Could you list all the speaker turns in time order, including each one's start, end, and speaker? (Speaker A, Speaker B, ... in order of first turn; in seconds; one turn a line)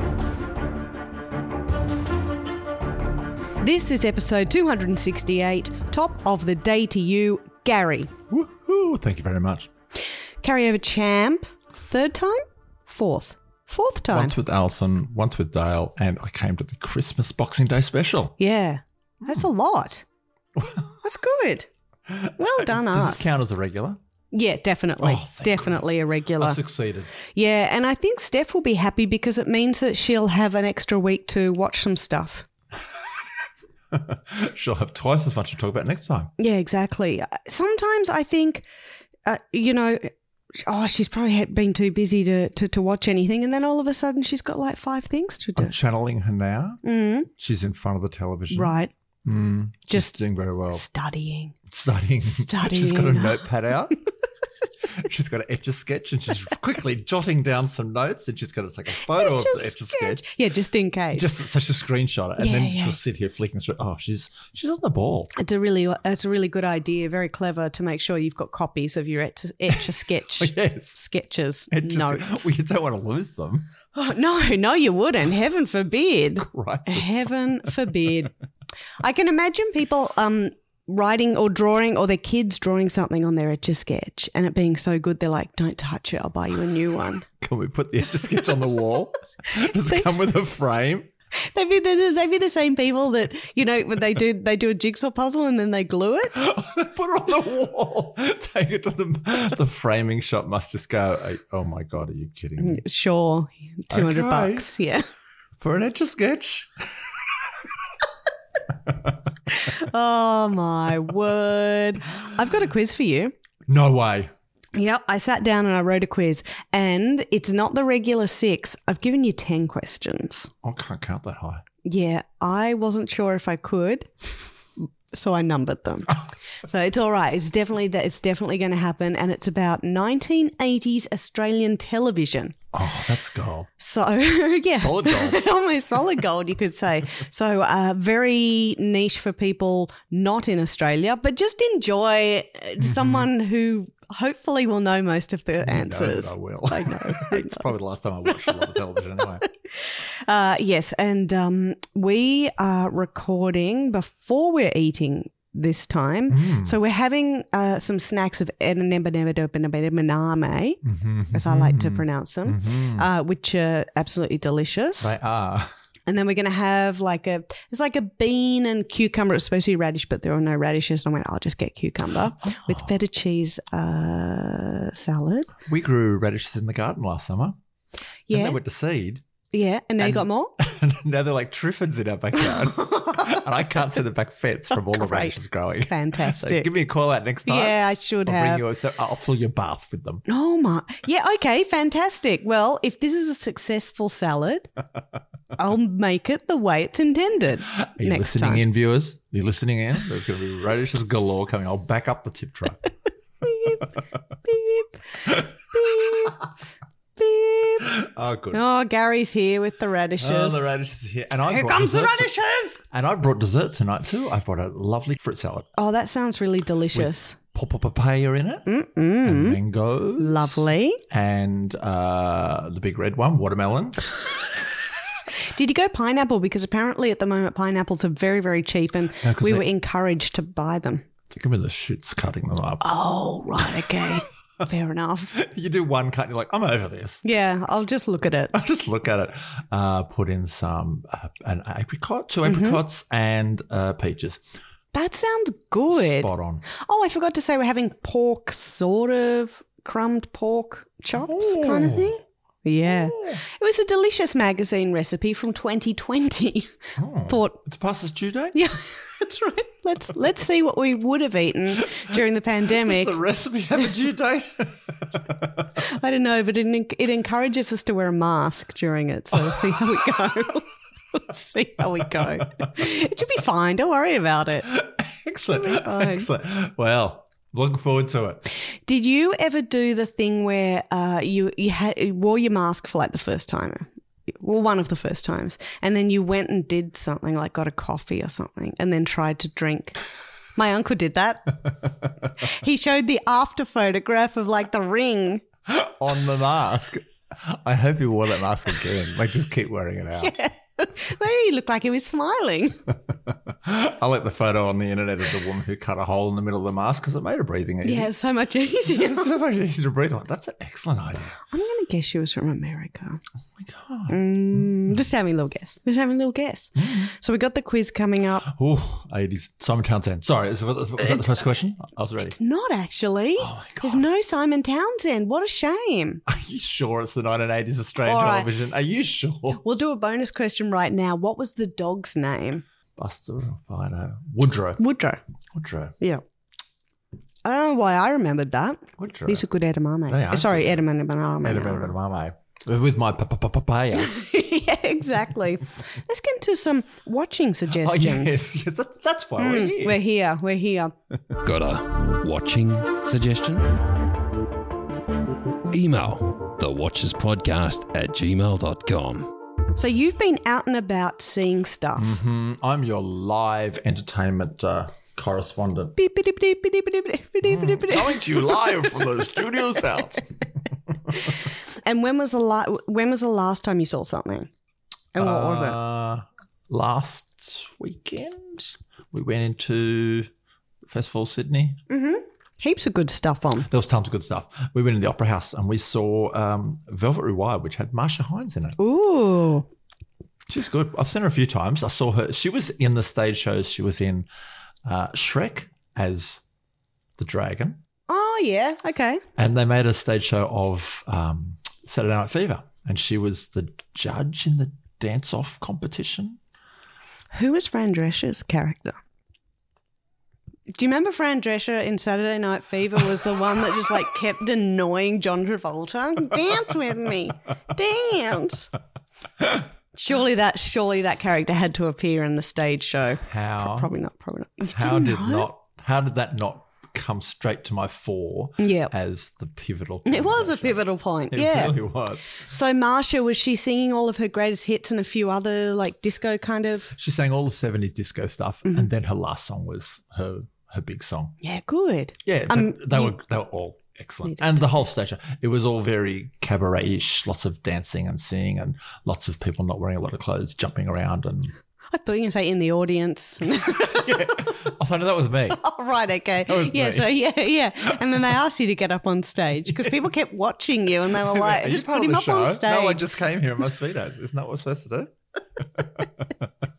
Speaker A: 3.6-8.1
Speaker B: 8.3-9.7
Speaker A: 10.4-14.3
Speaker B: 14.1-18.4
Speaker A: 18.4-20.1
Speaker B: 20.6-20.9
Speaker A: 21.0-21.7
Speaker B: 22.1-24.0
Speaker A: 22.4-23.3
Speaker A: 24.3-26.6
Speaker B: 25.0-27.1
Speaker A: 27.2-32.5
Speaker B: 33.9-36.3
Speaker A: 36.4-38.7
Speaker A: 39.2-45.8
Speaker B: 45.6-50.8
Speaker A: 46.8-47.3
Speaker A: 48.5-48.9
Speaker A: 50.7-51.5
Speaker B: 51.7-54.0
Speaker A: 52.2-53.5
Speaker B: 54.9-60.3
Speaker A: 59.0-61.3
Speaker B: 61.1-65.3
Speaker A: 62.4-63.0
Speaker A: 65.3-72.5
Speaker B: 69.7-71.0
Speaker B: 71.7-73.8
Speaker A: 73.9-78.3
Speaker B: 76.4-77.8
Speaker A: 79.0-87.3
Speaker B: 87.3-91.1
Speaker A: 91.3-96.4
Speaker B: 96.3-102.8
Speaker A: 102.6-105.1
Speaker B: 103.9-104.7
Speaker B: 105.6-107.1
Speaker A: 109.5-113.3
Speaker B: 113.7-114.3
Speaker A: 114.8-120.5
Speaker B: 120.6-121.6
Speaker A: 121.8-124.1
Speaker A: 124.8-132.6
Speaker B: 132.7-133.7
Speaker A: 133.8-147.7
Speaker B: 134.7-135.4
Speaker B: 142.8-143.3
Speaker B: 145.6-149.4
Speaker A: 149.7-160.8
Speaker B: 156.3-156.8
Speaker B: 160.8-163.1
Speaker A: 161.3-165.1
Speaker B: 165.0-165.7
Speaker A: 166.1-175.5
Speaker B: 172.4-172.9
Speaker B: 175.7-177.6
Speaker A: 178.3-178.6
Speaker B: 178.3-179.2
Speaker A: 179.5-180.6
Speaker B: 180.0-190.2
Speaker A: 182.4-183.4
Speaker A: 184.9-185.3
Speaker A: 185.9-186.7
Speaker A: 187.5-188.7
Speaker A: 190.3-194.7
Speaker A: 195.6-198.6
Speaker B: 197.8-202.9
Speaker A: 203.4-203.9
Speaker A: 204.4-206.4
Speaker B: 205.2-206.3
Speaker A: 207.2-207.9
Speaker B: 207.8-208.6
Speaker A: 208.5-210.6
Speaker B: 210.2-215.7
Speaker A: 211.5-212.8
Speaker A: 215.8-217.4
Speaker B: 216.9-218.7
Speaker A: 218.7-219.6
Speaker B: 219.2-224.0
Speaker A: 220.2-221.0
Speaker A: 225.4-231.1
Speaker B: 229.2-229.7
Speaker B: 231.3-232.8
Speaker A: 232.8-235.3
Speaker B: 233.6-234.2
Speaker B: 235.3-237.2
Speaker A: 237.2-238.5
Speaker B: 238.5-244.4
Speaker A: 242.4-242.8
Speaker A: 244.9-257.6
Speaker B: 245.9-246.7
Speaker B: 251.3-252.2
Speaker B: 252.8-253.4
Speaker B: 257.0-258.6
Speaker A: 258.5-263.2
Speaker B: 262.7-265.8
Speaker A: 265.8-274.7
Speaker B: 269.4-269.8
Speaker B: 272.2-272.4
Speaker B: 274.6-278.4
Speaker A: 275.5-276.3
Speaker A: 278.9-290.0
Speaker A: 290.6-291.6
Speaker A: 292.4-295.4
Speaker B: 295.7-300.3
Speaker A: 300.1-302.8
Speaker B: 303.3-308.1
Speaker A: 307.8-309.3
Speaker B: 308.9-311.4
Speaker A: 311.5-313.2
Speaker B: 313.6-315.0
Speaker A: 314.1-318.5
Speaker B: 316.8-317.1
Speaker B: 318.4-322.4
Speaker A: 321.0-321.4
Speaker A: 322.2-326.2
Speaker B: 323.4-324.1
Speaker B: 326.3-329.6
Speaker A: 328.1-328.5
Speaker A: 329.5-332.6
Speaker B: 333.0-334.8
Speaker A: 334.8-335.2
Speaker B: 335.5-335.9
Speaker A: 337.4-341.9
Speaker B: 339.0-339.4
Speaker B: 340.1-340.8
Speaker B: 341.4-344.1
Speaker A: 343.9-348.4
Speaker B: 347.7-350.0
Speaker A: 349.4-350.9
Speaker C: 351.4-353.9
Speaker C: 355.7-359.3
Speaker A: 359.8-362.2
Speaker B: 362.0-365.9
Speaker A: 366.0-368.3
Speaker B: 367.4-370.3
Speaker A: 371.2-374.5
Speaker A: 375.1-375.8
Speaker B: 375.2-380.3
Speaker B: 380.9-381.8
Speaker A: 381.9-383.7
Speaker B: 383.7-388.8
Speaker A: 388.8-389.7
Speaker B: 390.5-394.3
Speaker B: 394.9-396.4
Speaker B: 397.2-397.8
Speaker A: 398.1-399.2
Speaker B: 399.4-406.4
Speaker A: 407.3-409.0
Speaker A: 410.7-418.7
Speaker A: 419.9-425.5
Speaker B: 423.2-423.9
Speaker B: 424.7-432.3
Speaker A: 428.6-428.9
Speaker A: 430.1-431.8
Speaker A: 432.3-436.9
Speaker B: 436.9-441.4
Speaker A: 441.4-443.1
Speaker B: 442.2-451.5
Speaker A: 444.3-444.6
Speaker A: 451.9-454.6
Speaker B: 453.9-455.6
Speaker A: 455.5-463.1
Speaker B: 456.4-457.1
Speaker B: 459.7-460.1
Speaker B: 461.1-466.5